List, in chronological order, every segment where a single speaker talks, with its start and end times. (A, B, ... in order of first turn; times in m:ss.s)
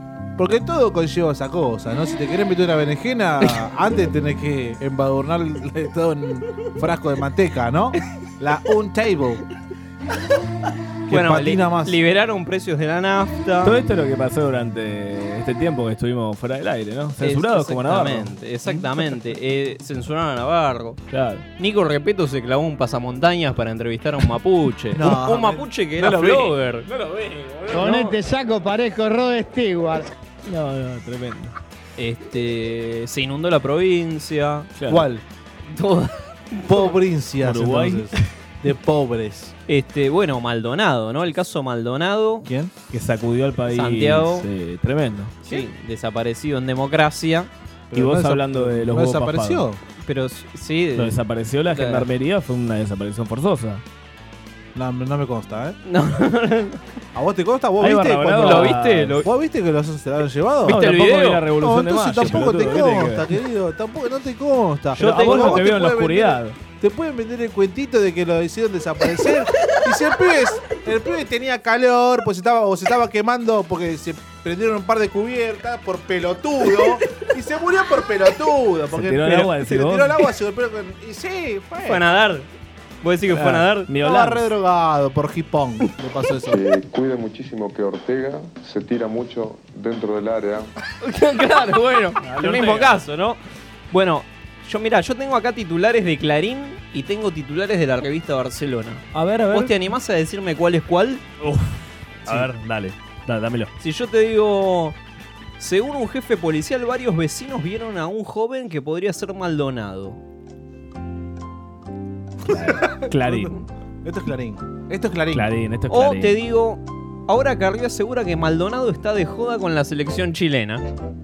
0:00.4-0:09.4 A
0:11.1-0:12.0 A
0:11.1-0:13.8 B
0:13.6-0:18.3 C
0:17.2-0:21.0 B
0:21.1-0:21.4 C
0:21.6-0:26.9 B
0:24.9-0:26.5 A
0:27.7-0:30.1 D
0:27.7-0:28.2 B
0:30.4-0:31.6 C
0:32.0-0:34.7 B
0:34.8-0:35.1 C
0:34.9-0:35.2 A
0:35.7-0:36.7 B
0:36.6-0:39.5 A
0:37.4-0:38.3 C
0:39.7-0:42.5 B
0:42.4-0:42.7 A
0:42.9-0:45.4 C
0:43.7-0:44.5 B
0:45.4-0:47.5 B
0:47.9-0:49.8 A
0:47.9-0:49.7 C
0:50.0-0:52.1 B
0:51.0-0:53.8 C
0:54.8-0:55.8 A
0:55.8-0:56.8 B
0:57.1-1:00.8 A
0:57.8-0:59.3 C
0:58.4-0:59.3 B
1:00.6-1:01.4 B
1:00.6-1:03.3 C
1:01.6-1:22.1 A
1:04.9-1:05.7 B
1:05.0-1:06.6 C
1:18.9-1:20.2 C
1:21.8-1:22.5 B
1:23.0-1:23.9 B
1:23.3-1:24.5 C
1:23.9-1:26.6 A
1:26.5-1:30.7 E
1:31.0-1:33.4 B
1:32.2-1:33.0 C
1:33.9-1:41.2 B
1:39.1-1:39.8 C
1:41.4-1:43.7 C
1:43.8-1:45.0 B
1:45.6-1:50.2 B
1:52.5-1:53.6 C
1:52.5-1:55.5 A
1:55.3-1:56.4 C
1:55.9-2:00.9 B